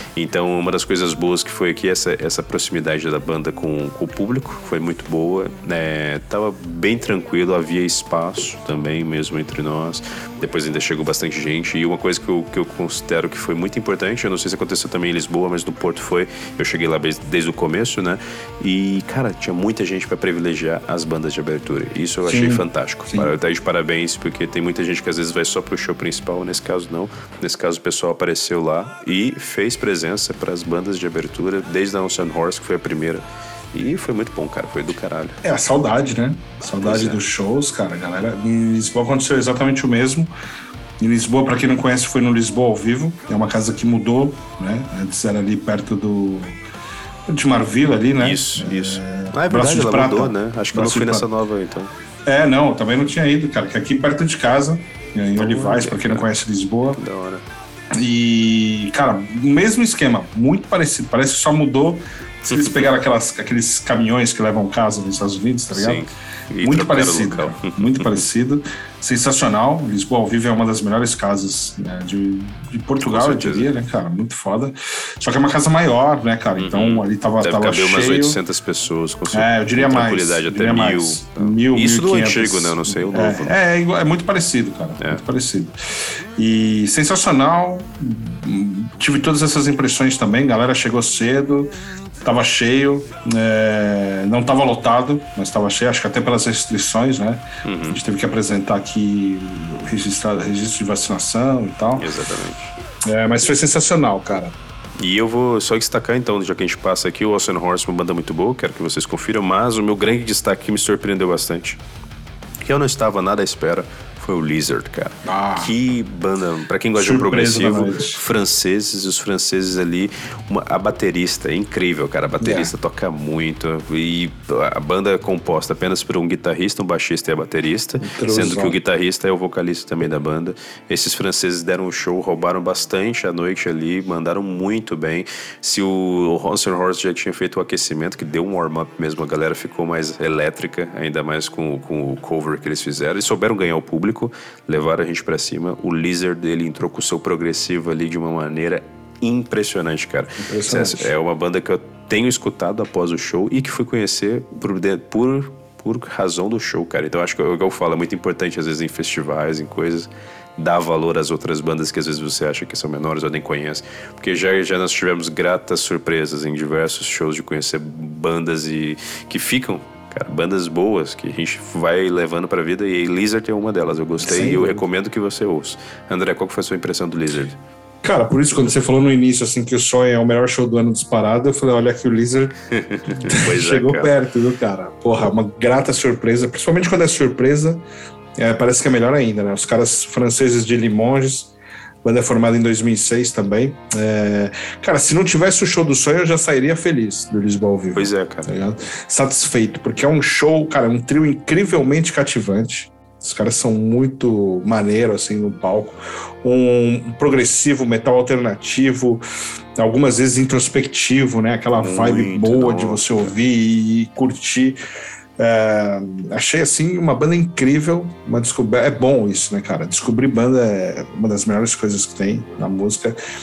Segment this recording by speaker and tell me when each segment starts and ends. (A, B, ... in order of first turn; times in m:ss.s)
0:00.2-0:35.4 A
0:22.3-0:23.3 B
0:35.4-0:40.3 B
0:36.8-0:37.2 A
0:41.0-0:46.6 B
0:47.3-0:51.3 B
0:48.2-0:51.9 A
0:52.3-0:57.0 B
0:55.4-0:56.3 A
0:57.0-0:57.4 A
0:58.0-1:06.0 B
1:02.5-1:02.8 A
1:05.7-1:08.3 A
1:06.6-1:18.4 B
1:13.0-1:13.7 A
1:16.6-1:23.6 A
1:19.3-1:25.8 B
1:26.4-1:31.7 B
1:32.2-1:42.1 B
1:37.6-1:38.0 A
1:42.0-1:42.8 A
1:43.1-1:44.6 B
1:45.0-1:51.8 A
1:52.6-2:57.6 A
1:55.2-1:55.8 B
1:57.0-1:58.2 B
2:02.4-2:02.7 B
2:08.0-2:08.8 B
2:30.4-2:31.1 B
2:54.2-2:54.8 B
2:58.0-3:02.5 B
3:02.7-3:04.1 A
3:03.2-3:07.8 B
3:08.4-3:11.5 B
3:12.0-3:29.2 B
3:17.9-3:18.7 A
3:29.8-3:34.8 B
3:31.8-3:33.4 A
3:35.4-3:43.2 B